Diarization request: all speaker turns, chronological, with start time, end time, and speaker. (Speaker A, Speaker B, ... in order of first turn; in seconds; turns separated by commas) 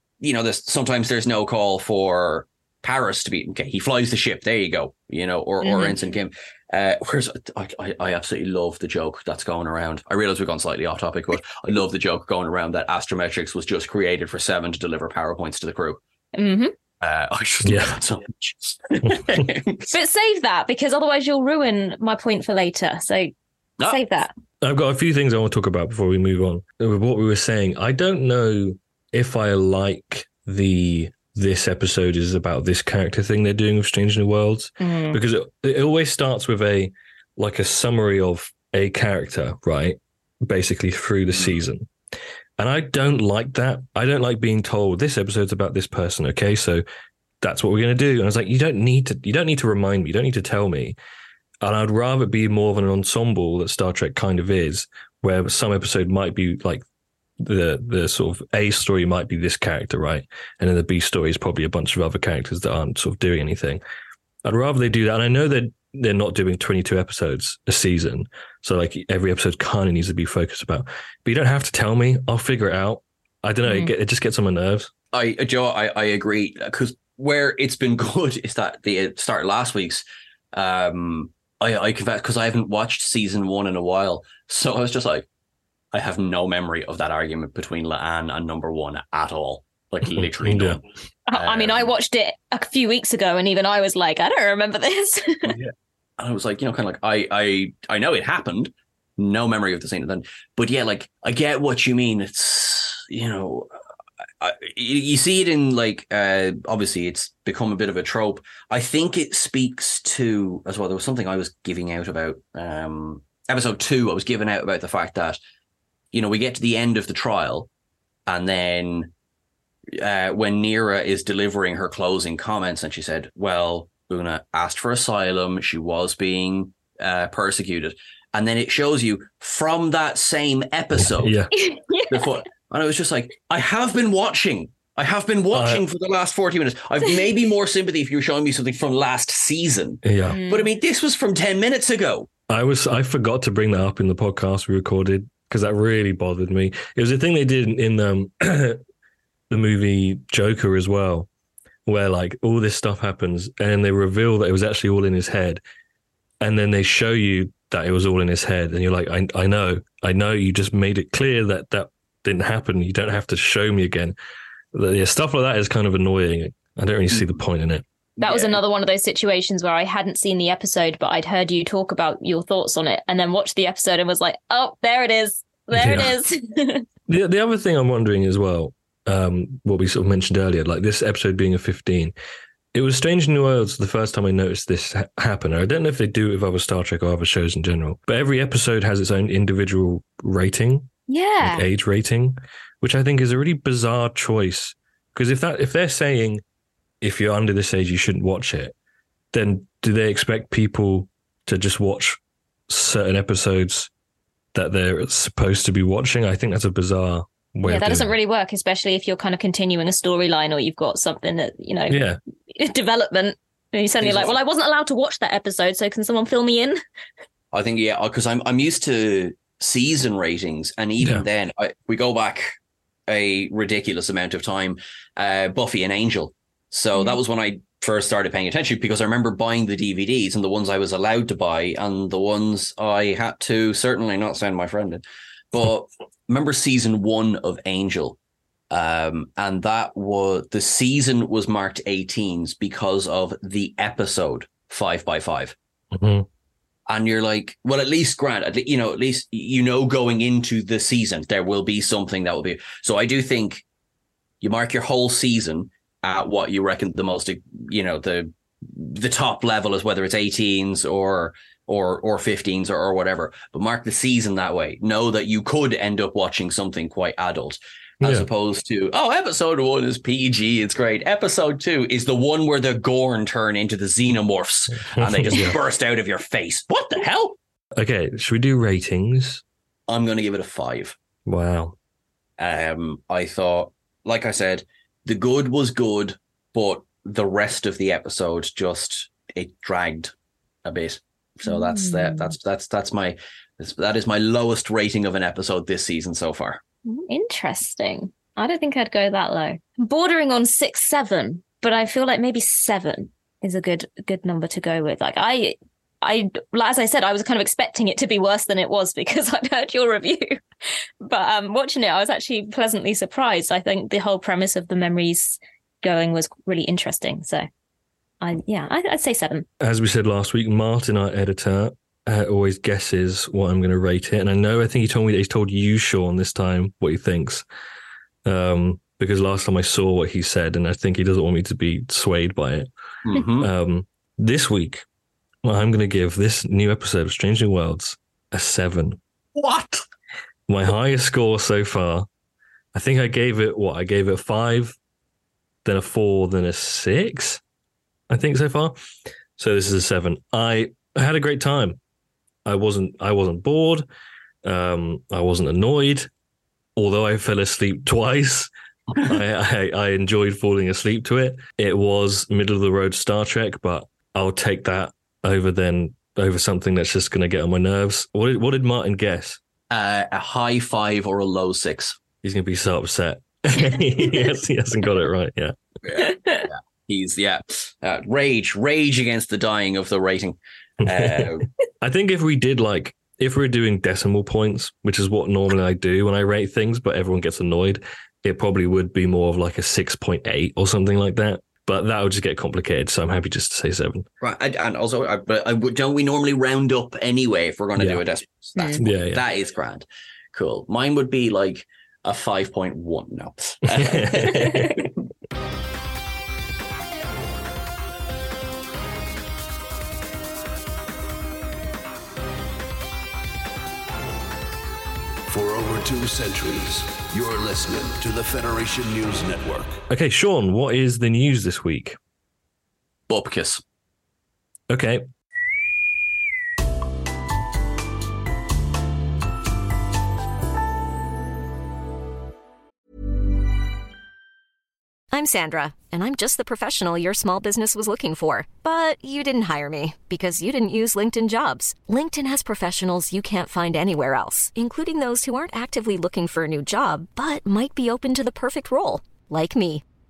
Speaker A: 0.2-16.0, Speaker B: 5.6-6.0, Speaker B: 16.3-16.7, Speaker A: 17.0-19.9, Speaker C: 17.6-17.9, Speaker C: 19.1-19.4, Speaker B: 19.9-23.3, Speaker B: 23.9-24.3, Speaker C: 24.6-41.9, Speaker B: 34.8-35.2, Speaker A: 41.3-41.6, Speaker C: 42.6-46.8, Speaker C: 47.4-50.9, Speaker C: 51.6-56.8, Speaker C: 57.4-63.8, Speaker C: 64.4-74.9, Speaker B: 73.7-73.9, Speaker A: 75.1-80.0, Speaker A: 80.5-85.2, Speaker A: 85.9-90.8, Speaker C: 90.1-90.8, Speaker B: 91.3-95.5, Speaker A: 91.3-91.9, Speaker A: 95.5-103.7, Speaker A: 104.4-115.4, Speaker A: 116.1-117.7, Speaker A: 118.3-119.1, Speaker A: 119.9-131.3, Speaker C: 131.0-131.5, Speaker B: 131.5-132.2, Speaker A: 132.1-142.3, Speaker C: 135.5-135.8, Speaker C: 140.0-140.4, Speaker B: 140.3-140.7, Speaker C: 142.5-148.8, Speaker C: 149.5-151.3, Speaker C: 151.8-155.6, Speaker C: 156.4-164.1, Speaker C: 164.7-167.8, Speaker B: 168.2-176.8, Speaker A: 168.2-168.6, Speaker C: 175.7-176.1, Speaker C: 177.1-182.1, Speaker C: 182.7-190.9, Speaker B: 191.1-191.6, Speaker C: 191.4-196.4, Speaker C: 197.0-198.7, Speaker C: 199.3-202.2, Speaker C: 202.7-203.9, Speaker C: 204.5-208.1, Speaker B: 207.6-212.0, Speaker C: 211.9-212.2, Speaker B: 212.5-216.8, Speaker A: 214.0-214.3, Speaker A: 217.5-222.5, Speaker A: 223.1-238.2, Speaker A: 238.7-245.5, Speaker C: 245.9-246.2, Speaker A: 246.9-253.6, Speaker A: 254.4-277.4, Speaker C: 268.0-268.3, Speaker C: 274.9-275.6, Speaker C: 277.8-279.4, Speaker A: 279.9-280.9, Speaker C: 281.3-281.7, Speaker A: 282.4-290.1, Speaker A: 290.6-296.6, Speaker B: 291.5-292.3, Speaker B: 296.9-310.4, Speaker B: 311.0-317.4, Speaker B: 318.2-319.4, Speaker C: 319.6-327.4, Speaker C: 328.2-332.7, Speaker A: 333.0-333.5, Speaker C: 333.4-334.8, Speaker C: 335.4-339.0, Speaker A: 339.4-339.8, Speaker C: 340.5-342.1, Speaker C: 342.7-344.8, Speaker C: 345.6-347.4, Speaker C: 348.1-348.8, Speaker C: 349.4-351.8, Speaker C: 352.4-353.9, Speaker C: 354.4-356.1, Speaker C: 356.8-358.5, Speaker C: 359.0-369.4, Speaker A: 369.7-371.9, Speaker C: 372.2-375.5, Speaker A: 375.8-381.5, Speaker B: 376.0-376.5, Speaker C: 380.8-381.3, Speaker C: 381.8-394.0, Speaker A: 394.2-404.5, Speaker C: 397.8-398.0, Speaker B: 398.6-398.8, Speaker C: 398.8-399.2, Speaker C: 403.7-404.9, Speaker D: 415.3-419.8, Speaker C: 419.9-422.0, Speaker A: 423.1-423.6, Speaker C: 424.7-425.0, Speaker E: 435.1-449.8